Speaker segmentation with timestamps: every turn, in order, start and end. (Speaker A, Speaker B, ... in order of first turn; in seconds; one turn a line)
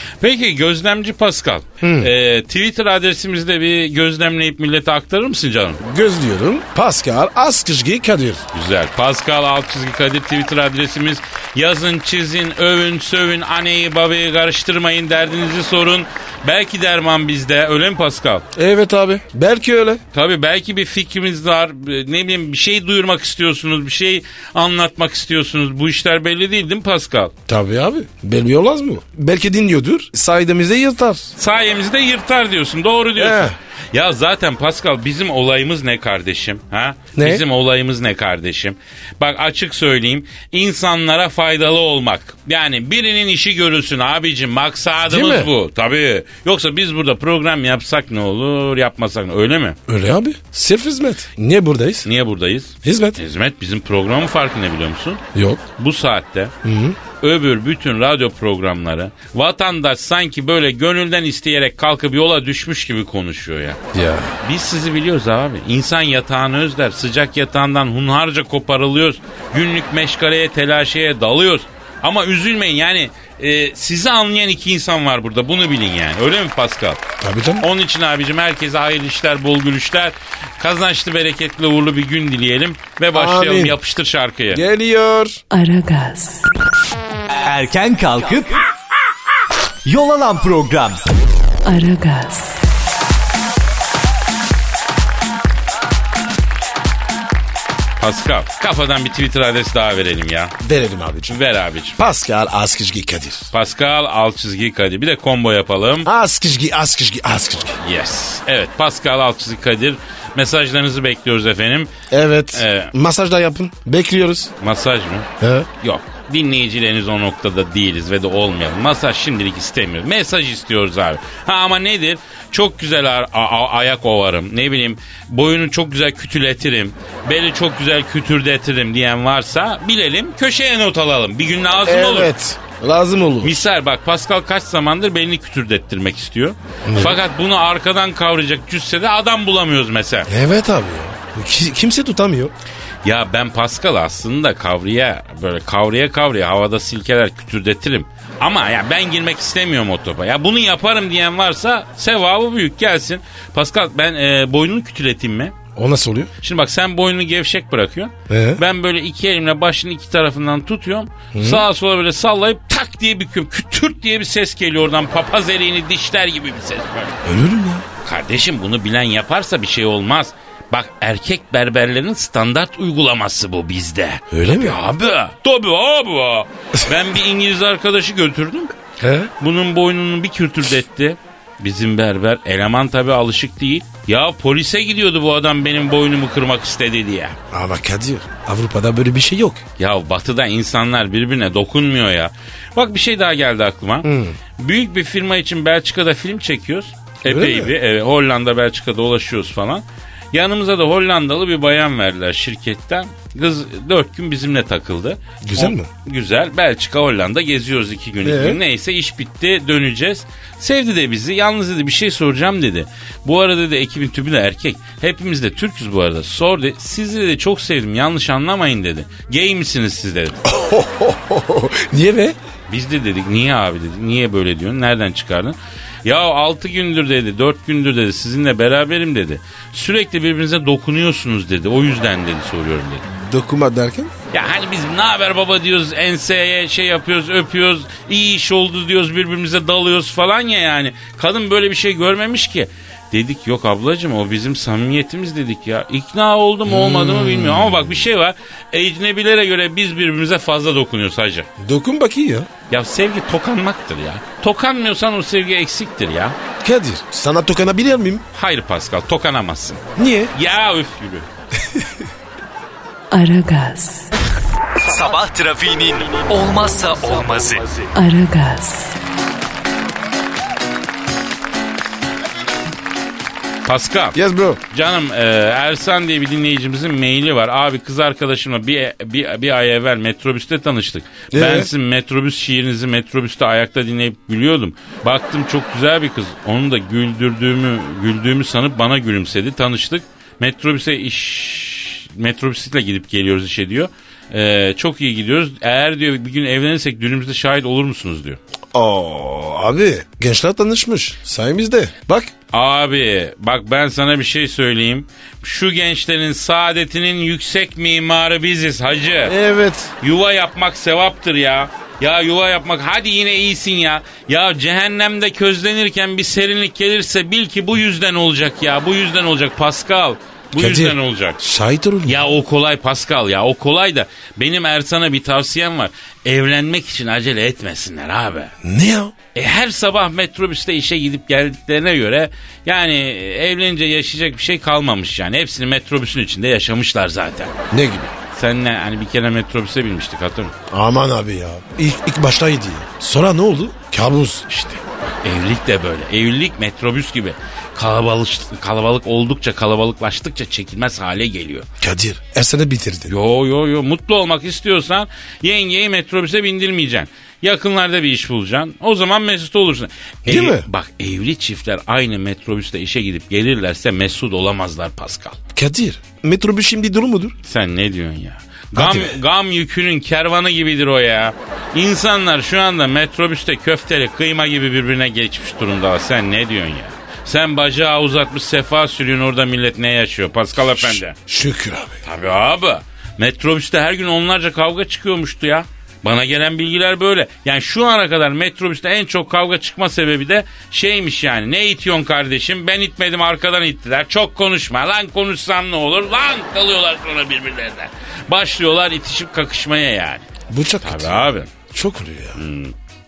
Speaker A: 0.2-5.8
Speaker B: 1.8-2.1
Speaker B: 5.8-8.4
Speaker A: 8.5-18.4
Speaker B: 18.5-20.0
Speaker A: 20.1-27.3
Speaker B: 27.5-31.3
Speaker A: 31.4-49.8
Speaker B: 33.1-33.5
Speaker B: 37.1-37.4
Speaker B: 45.1-45.5
Speaker B: 49.9-52.1
Speaker A: 52.0-55.2
Speaker B: 52.8-53.2
Speaker B: 55.3-55.6
Speaker A: 55.8-56.5
Speaker B: 56.6-57.0
Speaker A: 57.2-63.8
Speaker B: 63.9-64.3
Speaker A: 64.4-77.0
Speaker B: 77.2-77.7
Speaker A: 77.6-84.6
Speaker B: 83.1-83.8
Speaker B: 84.5-85.4
Speaker C: 85.5-86.5
Speaker D: 87.4-88.6
Speaker D: 89.8-91.0
Speaker C: 91.6-92.6
Speaker A: 98.0-100.5
Speaker B: 100.6-101.4
Speaker A: 101.3-102.0
Speaker B: 102.0-103.5
Speaker A: 103.5-106.1
Speaker B: 106.0-107.8
Speaker A: 107.8-111.9
Speaker B: 112.1-114.5
Speaker A: 112.5-112.9
Speaker A: 114.6-115.3
Speaker B: 115.4-115.7
Speaker A: 115.8-132.3
Speaker B: 131.8-133.6
Speaker A: 133.4-140.3
Speaker B: 136.8-137.2
Speaker B: 140.3-142.5
Speaker A: 143.0-155.5
Speaker B: 155.7-156.3
Speaker A: 156.4-167.2
Speaker B: 158.3-158.6
Speaker B: 161.3-161.6
Speaker B: 167.2-167.8
Speaker A: 168.0-178.7
Speaker B: 174.3-174.8
Speaker B: 179.0-179.3
Speaker A: 179.4-187.3
Speaker B: 187.5-189.6
Speaker A: 189.8-220.4
Speaker B: 194.0-194.4
Speaker B: 197.2-197.7
Speaker B: 205.4-205.9
Speaker B: 208.2-208.6
Speaker B: 220.4-222.3
Speaker A: 222.7-233.1
Speaker B: 233.1-234.1
Speaker A: 234.3-251.5
Speaker B: 246.7-248.1
Speaker B: 251.6-252.5
Speaker A: 252.7-256.4
Speaker B: 256.6-258.2
Speaker A: 258.3-261.3
Speaker B: 259.9-260.3
Speaker B: 261.6-262.0
Speaker C: 263.1-264.1
Speaker D: 264.8-267.8
Speaker C: 267.9-268.9
Speaker A: 273.6-274.2
Speaker B: 274.1-274.6
Speaker A: 274.7-298.4
Speaker B: 281.3-281.7
Speaker B: 298.7-302.3
Speaker A: 302.5-309.3
Speaker B: 309.3-309.9
Speaker A: 310.0-321.4
Speaker B: 320.6-322.2
Speaker A: 322.0-328.5
Speaker B: 328.6-329.1
Speaker A: 329.3-337.5
Speaker B: 337.7-338.1
Speaker A: 338.3-340.5
Speaker B: 340.7-344.4
Speaker A: 344.5-351.7
Speaker B: 351.8-353.1
Speaker A: 353.1-365.4
Speaker B: 360.3-360.6
Speaker B: 365.5-367.4
Speaker A: 367.4-381.1
Speaker B: 368.7-369.2
Speaker B: 380.7-382.0
Speaker A: 382.0-400.3
Speaker B: 400.5-402.4
Speaker A: 400.8-401.5
Speaker A: 402.3-402.7